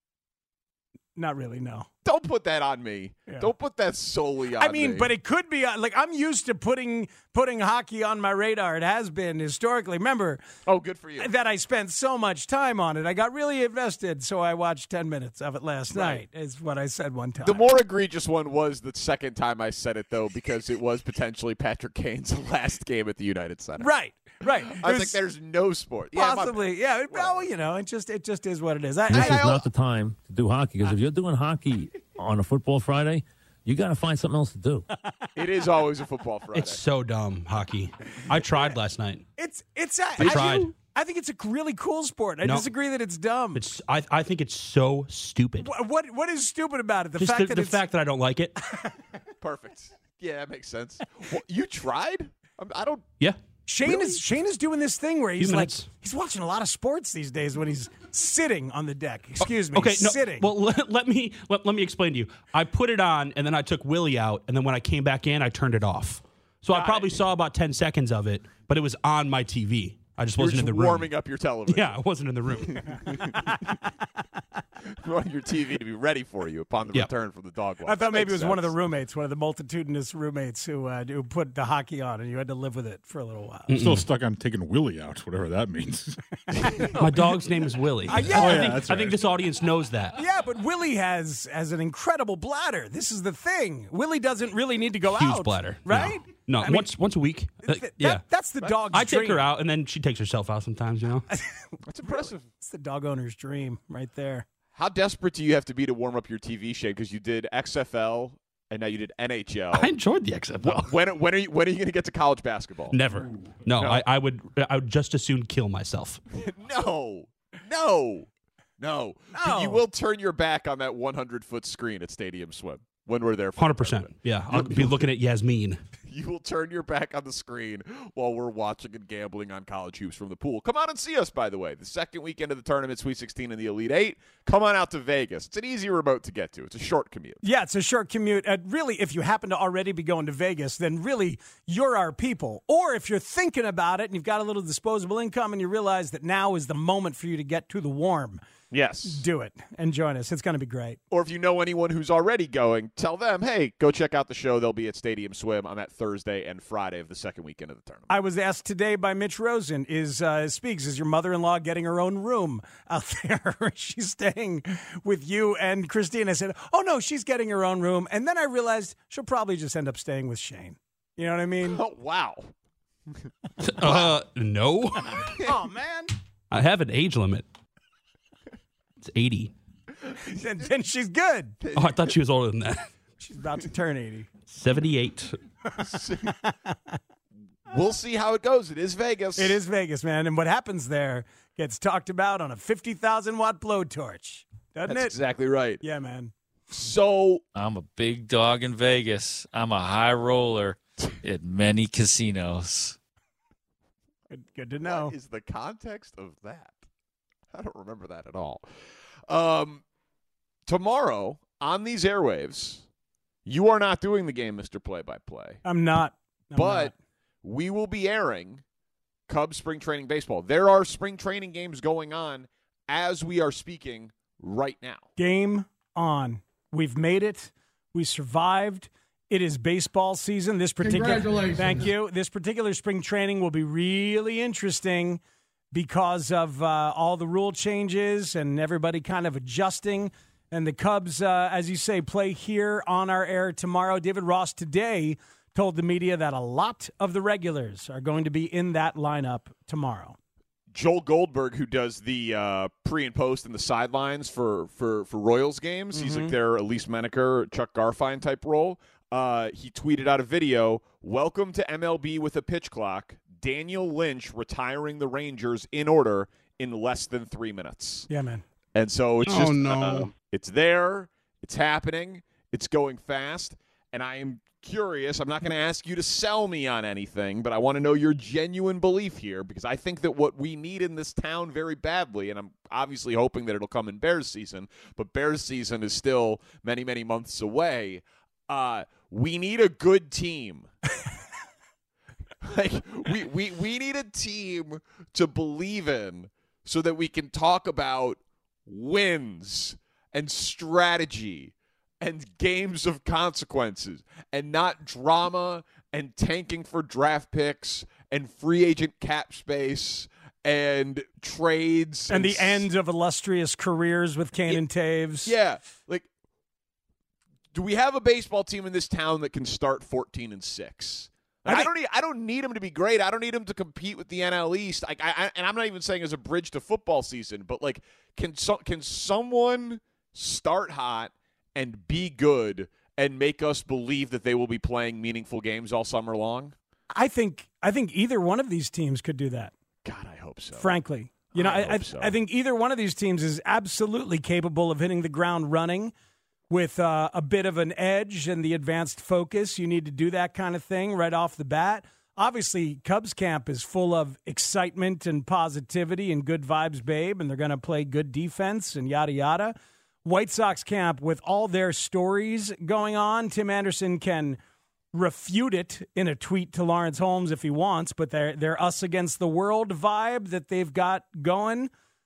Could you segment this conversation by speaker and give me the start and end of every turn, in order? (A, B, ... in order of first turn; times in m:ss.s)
0:01.2-0:01.9 A
0:02.0-0:05.1 B
0:04.6-0:10.4 A
0:10.6-0:11.3 B
0:11.2-0:17.6 A
0:15.9-0:16.2 B
0:17.4-0:23.9 B
0:23.8-0:25.2 A
0:24.6-0:27.4 B
0:26.1-0:29.6 A
0:29.1-0:34.8 C
0:29.1-0:29.5 B
0:35.3-0:36.8 B
0:36.5-0:39.2 D
0:39.4-0:43.6 A
0:40.2-0:40.7 D
0:40.2-0:40.6 B
0:42.4-0:42.7 D
0:43.5-0:45.7 D
0:45.6-0:47.8 A
0:47.2-0:48.5 D
0:49.4-0:53.1 B
0:53.2-0:54.2 D
0:53.7-1:00.5 A
0:55.4-0:55.9 D
0:59.4-1:11.1 D
1:06.7-1:07.1 B
1:10.4-1:11.9 B
1:11.7-1:13.4 D
1:12.6-1:13.7 B
1:14.9-1:18.7 B
1:17.8-1:23.7 A
1:23.7-1:24.0 D
1:23.7-1:27.0 E
1:26.5-1:27.0 A
1:27.0-1:30.2 D
1:28.1-1:28.8 A
1:28.2-1:29.2 E
1:30.2-1:36.9 A
1:35.1-1:38.2 D
1:37.6-1:39.4 A
1:38.9-1:41.2 D
1:41.3-1:44.4 A
1:41.8-1:42.4 B
1:44.7-1:49.9 B
1:49.7-1:50.7 D
1:50.6-1:53.0 B
1:52.9-1:56.2 D
1:53.7-1:54.0 B
1:56.3-1:58.3 B
1:58.8-2:05.0 B
1:59.3-1:59.8 A
2:03.6-2:05.8 D
2:06.1-2:17.4 B
2:17.4-2:28.4 A
2:28.7-2:29.2 B
2:29.0-2:31.0 A
2:31.1-2:38.1 B
2:38.1-2:51.8 A
2:51.6-2:52.5 B
2:53.6-2:55.4 D
2:53.8-2:54.1 B
2:55.4-2:56.1 A
2:56.5-2:57.4 D
2:59.0-2:59.5 D
3:00.2-3:01.6 A
3:01.6-3:02.1 B
3:01.7-3:02.9 D
3:03.2-3:04.3 A
3:04.5-3:05.4 D
3:05.8-3:06.3 B
3:07.7-3:09.6 B
3:09.4-3:15.2 A
3:14.9-3:15.8 B
3:15.8-3:16.3 A
3:16.7-3:17.4 B
3:17.5-3:23.0 F
3:24.3-3:25.1 A
3:24.8-3:26.8 B
3:27.5-3:28.6 B
3:29.3-3:29.8 B
3:30.6-3:32.8 B
3:33.4-3:35.6 B
3:35.6-3:36.9 A
3:36.5-3:36.9 B
3:37.4-3:38.6 B
3:39.3-3:45.1 B
3:45.2-3:55.2 A
3:55.7-4:10.2 A
4:10.7-4:28.1 B
4:15.9-4:16.3 A
4:28.1-4:28.4 A
4:28.7-4:50.7 B
4:29.3-4:30.0 D
4:52.4-5:12.6 B
5:12.1-5:15.3 A
5:15.2-5:16.0 B
5:17.5-5:36.5 B
5:36.9-5:39.5 A
5:39.8-5:40.8 B
5:40.6-5:45.9 A
5:41.3-5:42.2 B
5:46.5-6:04.4 A
6:04.9-6:11.7 A